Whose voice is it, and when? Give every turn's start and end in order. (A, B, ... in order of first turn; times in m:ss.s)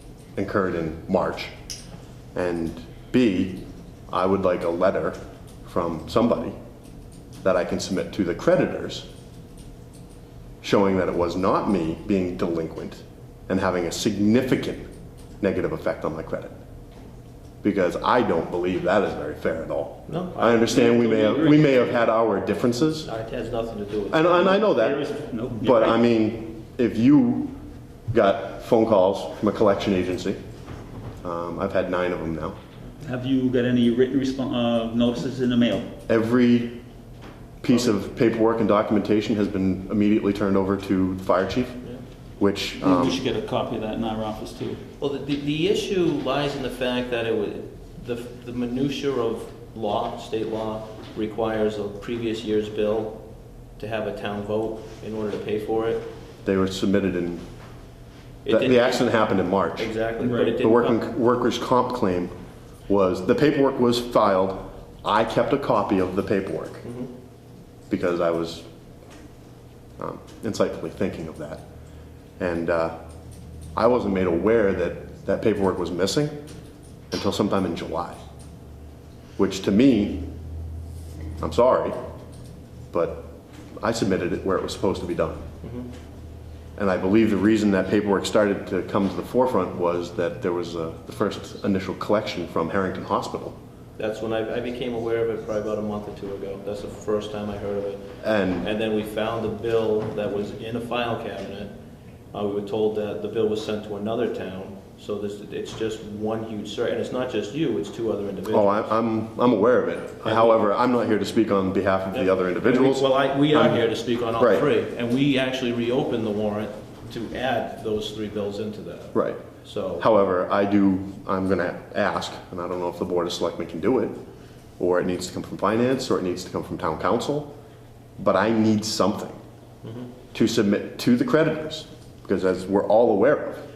0:00.4-0:01.5 A
0:02.3-0:06.6 A
0:07.4-0:09.0 A
0:10.6-0:14.9 A
0:15.4-0:16.5 A
0:17.6-0:23.1 A
0:20.1-0:21.4 B
0:20.7-0:21.8 C
0:23.0-0:24.6 B
0:24.1-0:25.1 A
0:24.5-0:26.0 C
0:25.6-0:27.6 A
0:28.1-0:30.4 A
0:31.2-0:32.6 A
0:33.0-0:36.0 C
0:36.1-0:36.8 A
0:37.6-0:41.8 A
0:42.4-0:43.2 A
0:42.8-0:44.8 C
0:45.0-0:53.2 B
0:53.8-0:56.1 B
0:56.4-0:57.4 A
0:58.4-1:01.0 B
0:58.5-1:02.3 A
1:00.2-1:00.5 C
1:02.9-1:06.8 A
1:06.8-1:07.1 B
1:07.9-1:08.6 A
1:10.0-1:11.6 A
1:12.4-1:13.0 A
1:13.7-1:16.4 A
1:17.1-1:18.2 A
1:19.4-1:20.3 A
1:21.4-1:22.0 A
1:22.9-1:25.5 A
1:25.6-1:25.9 B
1:26.8-1:33.5 A
1:34.0-1:41.7 B
1:38.2-1:38.7 A
1:42.3-1:48.9 B
1:48.5-1:53.8 A
1:50.2-1:50.6 B
1:52.1-2:00.0 B
1:54.4-1:54.7 A
1:59.1-1:59.4 A
2:00.0-2:04.2 A
2:04.8-2:07.5 A
2:08.2-2:09.4 A
2:09.8-2:10.1 B
2:10.3-2:13.6 A